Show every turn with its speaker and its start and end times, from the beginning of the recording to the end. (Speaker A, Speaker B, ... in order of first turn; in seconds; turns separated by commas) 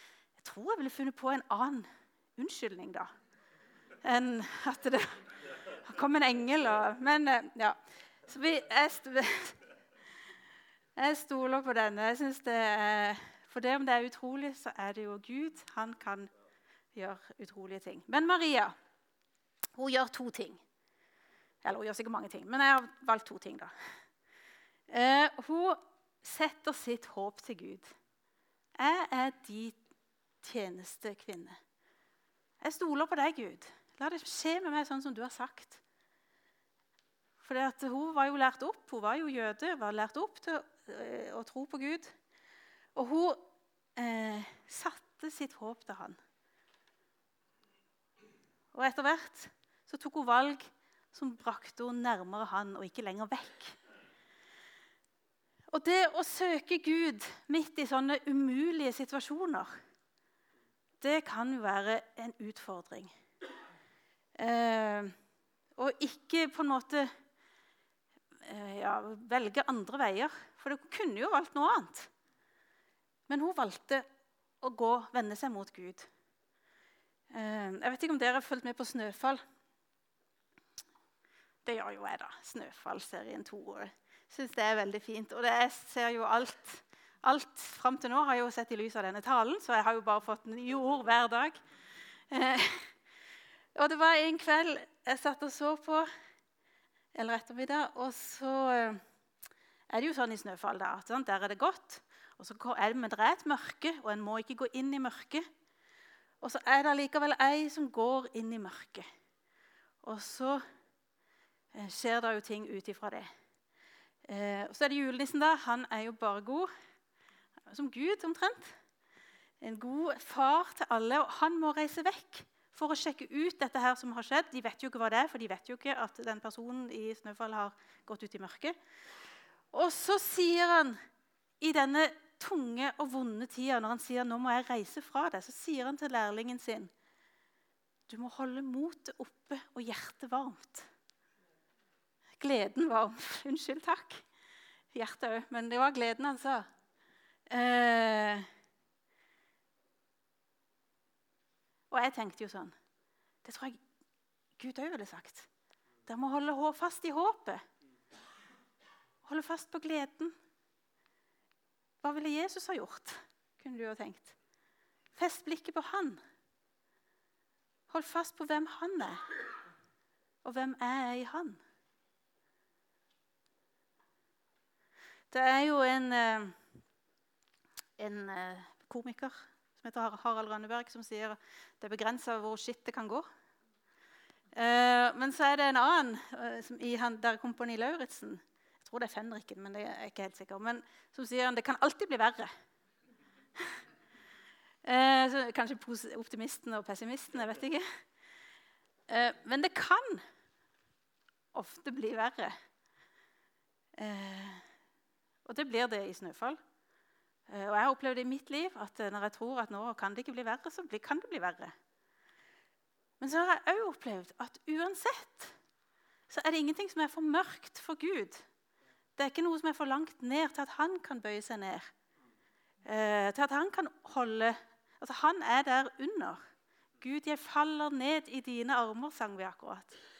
Speaker A: 0.4-3.1, Speaker A: 4.0-9.6, Speaker A: 11.0-16.3, Speaker A: 16.9-18.7, Speaker A: 19.8-20.6, Speaker A: 21.6-23.7, Speaker A: 24.9-27.9, Speaker A: 28.8-29.8, Speaker A: 30.4-31.6, Speaker A: 32.6-35.8, Speaker A: 37.4-42.1, Speaker A: 42.9-46.2, Speaker A: 48.7-53.8, Speaker A: 55.7-59.7, Speaker A: 61.0-63.2, Speaker A: 64.4-65.1, Speaker A: 65.7-67.1, Speaker A: 68.4-72.1, Speaker A: 73.3-74.0, Speaker A: 74.6-76.1, Speaker A: 77.3-79.4, Speaker A: 81.6-91.6, Speaker A: 92.3-92.9, Speaker A: 93.7-96.1, Speaker A: 97.1-99.0, Speaker A: 99.9-105.5, Speaker A: 106.4-109.0, Speaker A: 110.0-110.6, Speaker A: 111.7-113.3, Speaker A: 114.2-116.7, Speaker A: 117.7-118.8, Speaker A: 119.6-128.8, Speaker A: 129.7-131.0, Speaker A: 131.6-136.9, Speaker A: 138.1-140.9, Speaker A: 142.4-144.2, Speaker A: 144.9-146.7, Speaker A: 147.5-148.5, Speaker A: 151.9-152.7, Speaker A: 153.4-153.8, Speaker A: 154.6-155.5, Speaker A: 156.1-157.6, Speaker A: 159.2-160.3, Speaker A: 162.0-164.3, Speaker A: 165.1-166.2, Speaker A: 167.9-169.2, Speaker A: 170.4-171.6, Speaker A: 175.3-176.6, Speaker A: 178.0-183.2, Speaker A: 184.5-192.5, Speaker A: 194.8-197.8, Speaker A: 199.1-200.2, Speaker A: 201.5-202.5, Speaker A: 204.0-204.7, Speaker A: 205.4-206.6, Speaker A: 207.5-211.7, Speaker A: 213.2-215.6, Speaker A: 216.3-218.5, Speaker A: 219.2-221.9, Speaker A: 222.8-226.4, Speaker A: 227.0-229.9